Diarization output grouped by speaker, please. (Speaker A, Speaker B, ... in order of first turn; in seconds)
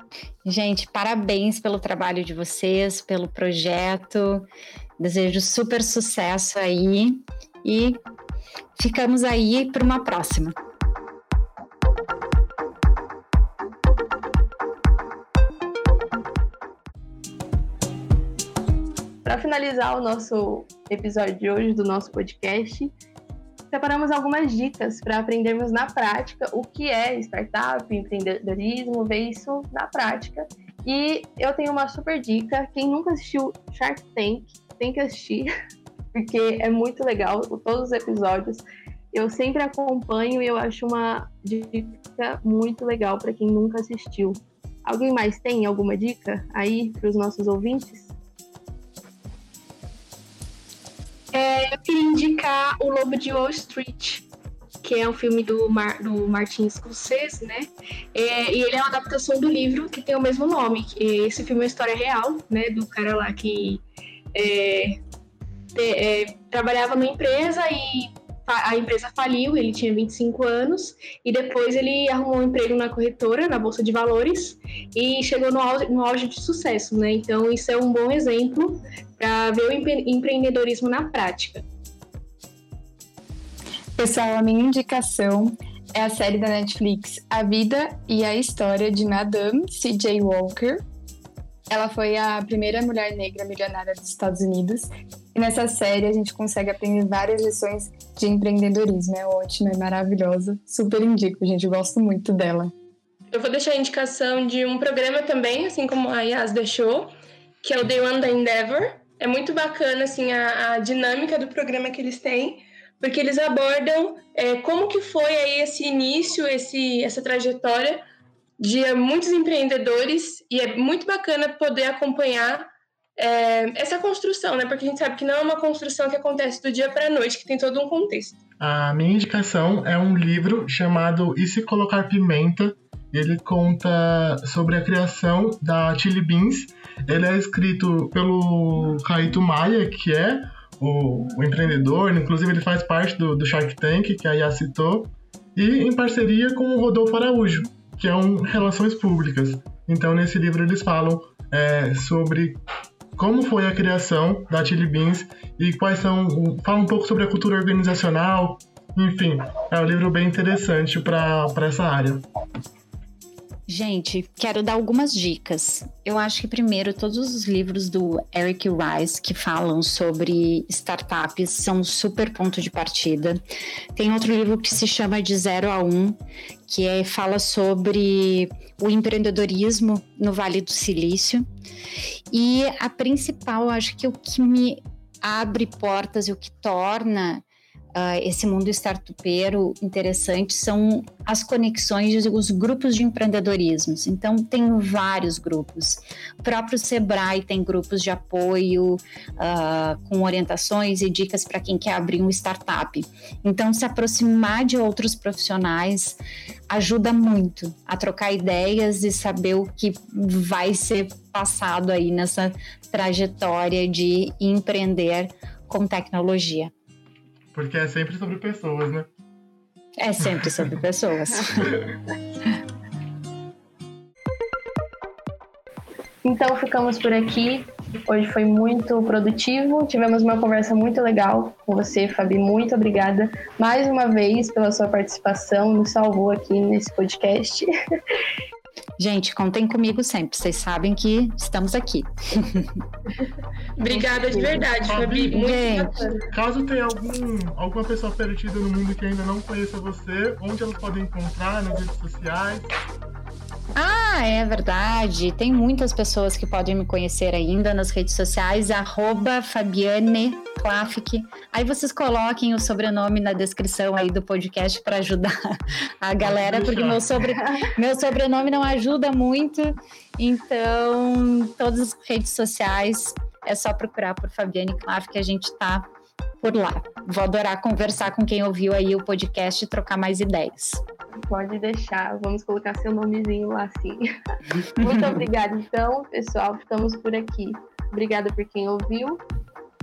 Speaker A: 0.5-4.5, 5.0-8.0, 8.8-10.6, 163.7-173.4, 174.0-181.5, 182.3-187.4, 187.9-216.7, 220.0-221.8, 239.0-242.8, 245.3-245.9, 253.8-275.9, 276.4-280.8, 284.8-285.2
Speaker B: 19.2-22.9, 23.7-35.5, 36.1-48.1, 226.2-237.7, 243.9-244.8, 245.9-246.2, 281.3-284.1, 284.7-289.2
Speaker C: 51.3-54.3, 54.8-63.8, 64.3-65.0, 65.7-81.7
Speaker D: 84.0-90.8, 91.7-102.7
Speaker E: 103.3-118.1, 118.6-128.4, 243.8-246.2
Speaker F: 128.6-152.6, 153.2-162.2, 217.5-219.1, 244.8-245.6, 246.3-252.7, 266.2-267.1